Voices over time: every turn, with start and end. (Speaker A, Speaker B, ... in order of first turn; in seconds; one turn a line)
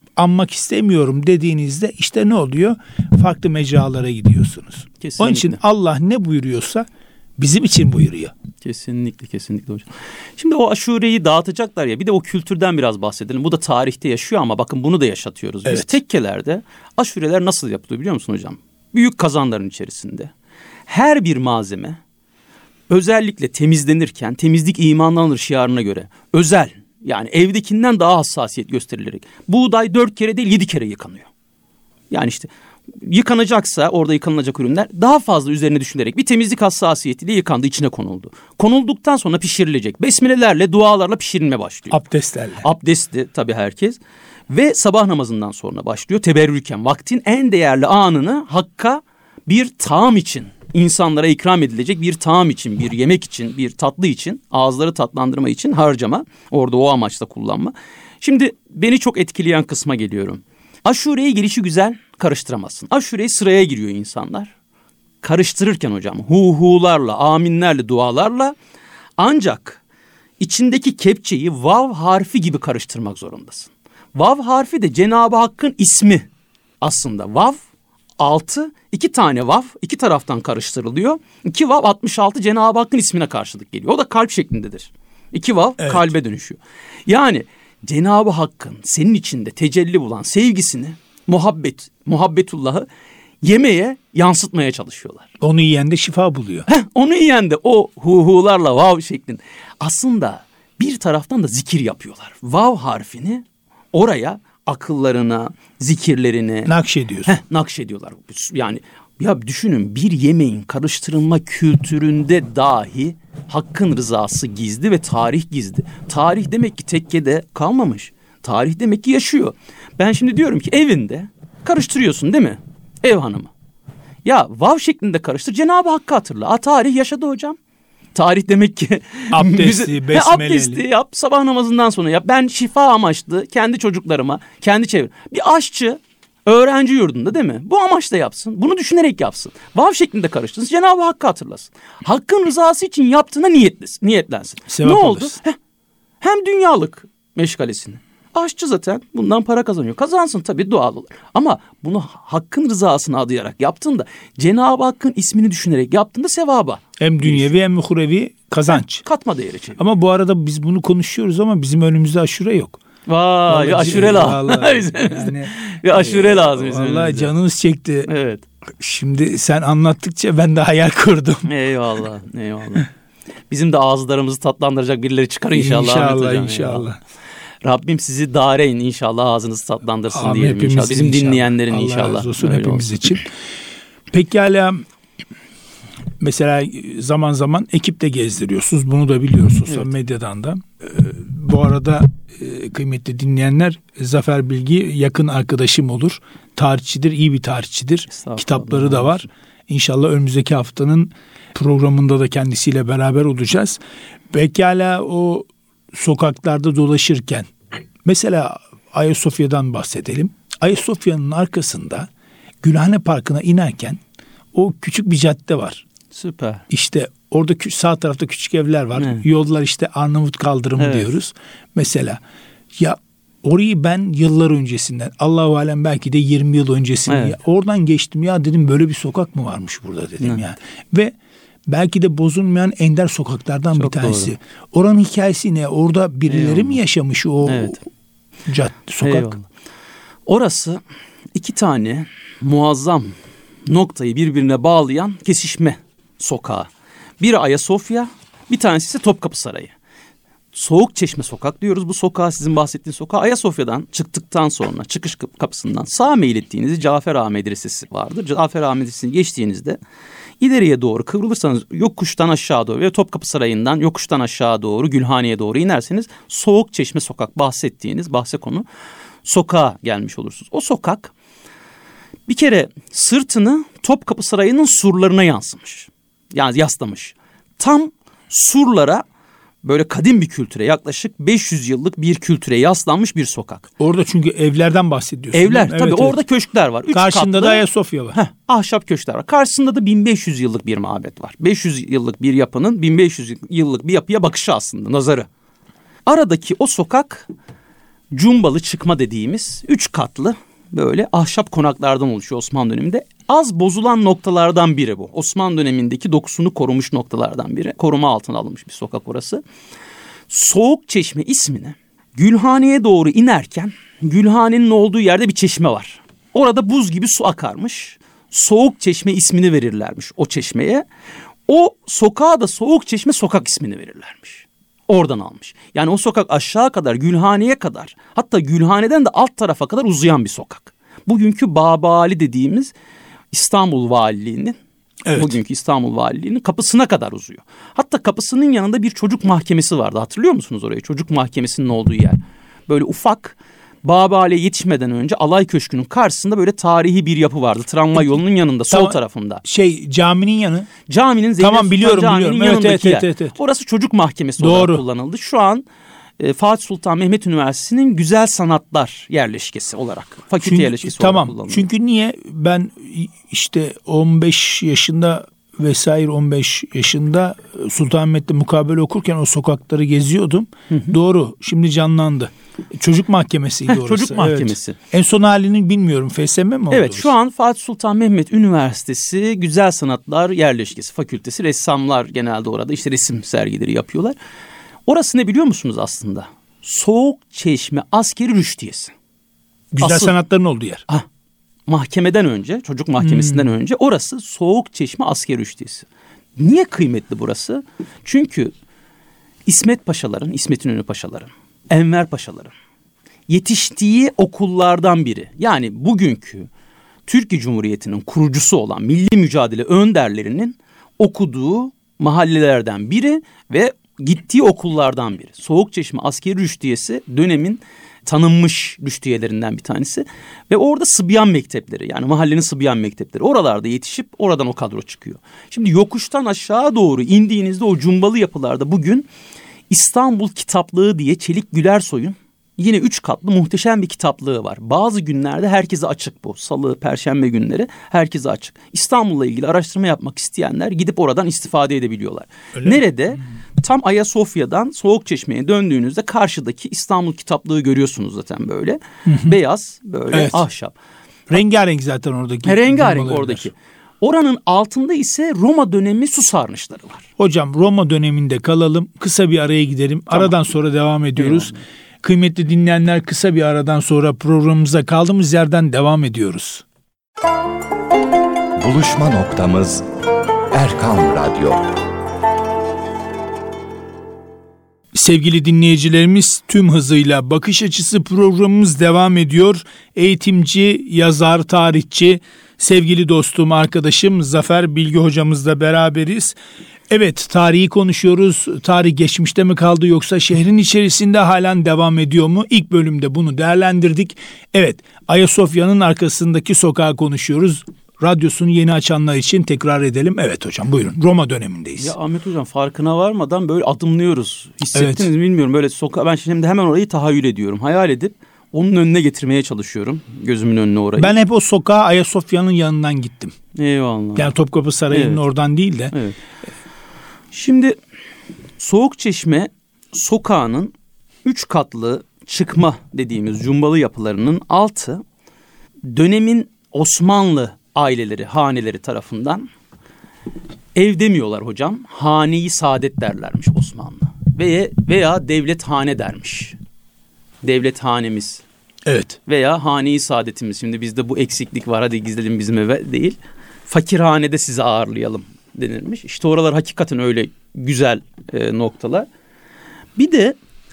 Speaker A: 0.2-6.9
Speaker B: 5.0-5.6
Speaker A: 7.4-8.3
Speaker B: 8.6-20.3
Speaker A: 15.7-15.9
Speaker B: 20.9-22.0
Speaker B: 22.9-31.3
Speaker B: 32.1-42.0
Speaker A: 41.9-42.6
Speaker B: 42.6-64.5
Speaker B: 65.2-68.5
Speaker B: 69.2-69.8
Speaker B: 70.4-76.3
Speaker B: 76.8-77.6
Speaker B: 78.2-92.9
Speaker B: 93.4-95.3
Speaker A: 95.4-96.7
Speaker B: 96.7-106.7
Speaker A: 106.7-107.3
Speaker B: 107.2-123.5
Speaker B: 124.2-127.6
Speaker B: 128.1-145.6
Speaker A: 129.3-130.8
Speaker A: 144.7-145.4
Speaker B: 146.2-157.5
Speaker A: 157.0-159.1
Speaker B: 158.7-159.8
Speaker A: 159.8-162.8
Speaker B: 163.1-167.3
Speaker A: 163.5-168.1
Speaker B: 168.1-168.4
Speaker A: 168.8-171.5
Speaker B: 171.5-172.9
Speaker B: 173.5-176.9
Speaker A: 175.6-177.0
Speaker B: 177.6-182.9
Speaker A: 180.1-183.3
Speaker A: 184.1-184.8
Speaker A: 186.2-203.8
Speaker B: 198.1-199.3
Speaker A: 204.3-207.5
Speaker A: 208.1-212.1
Speaker A: 212.6-214.0
Speaker A: 214.5-215.8
Speaker B: 216.1-216.6
Speaker A: 216.7-222.2
Speaker B: 218.9-219.2
Speaker B: 220.8-221.1
Speaker A: 222.8-231.2
Speaker B: 227.1-227.4
Speaker A: 231.7-237.8
Speaker B: 233.8-234.3
Speaker B: 236.3-236.8
Speaker B: 237.4-237.8
Speaker A: 238.5-239.4
Speaker B: 239.0-239.4
Speaker B: 240.3-240.8
Speaker B: 241.3-243.2
Speaker B: 243.7-246.7
Speaker B: 247.2-249.7
Speaker B: 250.5-259.8
Speaker B: 260.4-268.7
Speaker B: 269.2-271.1
Speaker B: 272.3-279.0
Speaker B: 279.6-283.7
Speaker A: 283.8-286.2
Speaker B: 285.3-287.6
Speaker A: 286.9-288.2
Speaker B: 288.1-295.3
Speaker B: 296.1-297.3
Speaker B: 298.1-309.4
Speaker B: 310.3-320.9
Speaker B: 321.5-332.7
Speaker B: 333.3-334.6
Speaker A: 335.1-335.4
Speaker B: 335.1-349.4
Speaker A: 348.7-350.7
Speaker B: 350.9-355.7
Speaker A: 351.4-353.4
Speaker A: 354.4-354.8
Speaker B: 356.2-361.7
Speaker A: 360.4-377.1
Speaker B: 373.7-374.8
Speaker B: 376.7-384.2
Speaker B: 384.9-388.9
Speaker A: 389.7-390.8
Speaker B: 389.8-390.1
Speaker B: 391.7-395.9
Speaker A: 393.0-393.5
Speaker B: 396.4-398.5
Speaker B: 399.5-402.5
Speaker B: 403.3-406.5
Speaker B: 407.1-429.1
Speaker B: 429.7-450.8
Speaker A: 449.1-449.4
Speaker A: 450.1-450.4
Speaker A: 451.3-453.5
Speaker B: 452.4-457.1
Speaker A: 457.2-466.6
Speaker B: 461.2-461.6
Speaker C: 468.6-469.8
Speaker C: 470.5-471.6
Speaker A: 474.9-486.4
Speaker A: 486.9-501.9
Speaker B: 501.8-511.1
Speaker A: 504.7-505.1
Speaker A: 511.0-513.4
Speaker B: 513.5-514.3
Speaker A: 514.2-515.9
Speaker B: 514.9-515.2
Speaker B: 515.9-516.2
Speaker B: 517.3-517.8
Speaker B: 518.6-525.0
Speaker B: 525.9-529.5
Speaker B: 530.8-536.6
Speaker B: 537.4-538.4
Speaker A: 538.9-539.2
Speaker B: 539.3-549.1
Speaker B: 550.0-550.4